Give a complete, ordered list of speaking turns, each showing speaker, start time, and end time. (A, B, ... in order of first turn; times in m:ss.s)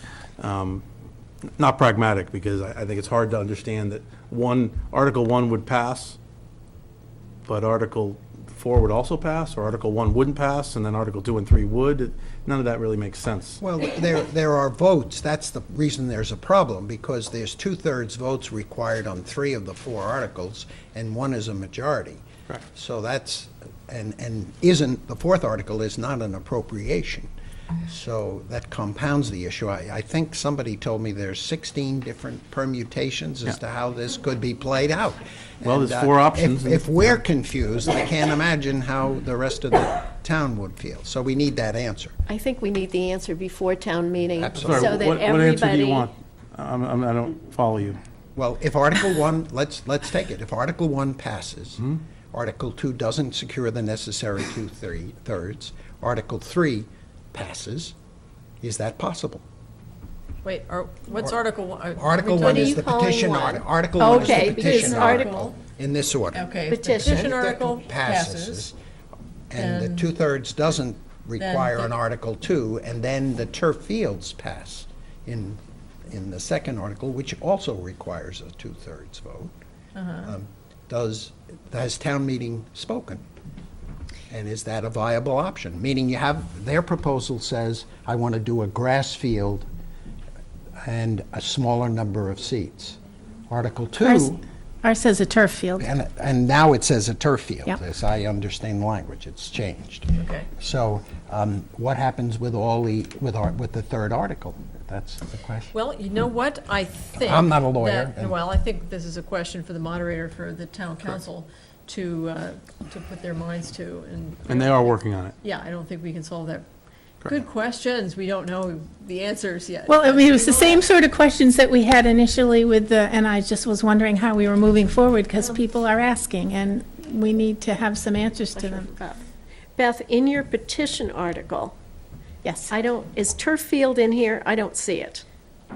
0:00.4-0:00.8 A
0:01.6-0:06.2 A
0:07.4-0:13.6 A
0:13.6-0:27.3 B
0:27.9-0:42.1 B
0:35.6-0:37.2 A
0:42.3-0:46.1 C
0:44.4-0:45.0 B
0:44.6-0:48.0 A
0:48.4-0:57.9 B
0:58.6-0:59.4 B
1:00.4-1:02.9 D
1:01.9-1:06.5 B
1:02.4-1:05.4 C
1:04.0-1:05.5 D
1:06.3-1:08.7 D
1:06.7-1:07.3 C
1:07.0-1:08.8 B
1:09.5-1:19.5 B
1:09.5-1:10.1 D
1:11.4-1:11.9 D
1:19.9-1:20.3 D
1:20.2-1:23.2 B
1:24.3-1:29.7 B
1:30.8-1:33.0 B
1:33.5-1:34.4 B
1:34.0-1:35.9 E
1:35.8-1:45.7 B
1:40.1-1:40.5 D
1:45.7-1:54.9 D
1:47.2-1:48.4 B
1:54.5-1:55.4 A
1:55.4-1:56.7 D
1:57.2-2:00.8 D
1:59.9-2:08.9 E
2:08.5-2:09.2 C
2:09.8-2:11.8 C
2:12.4-2:12.7 E
2:12.7-2:15.2 C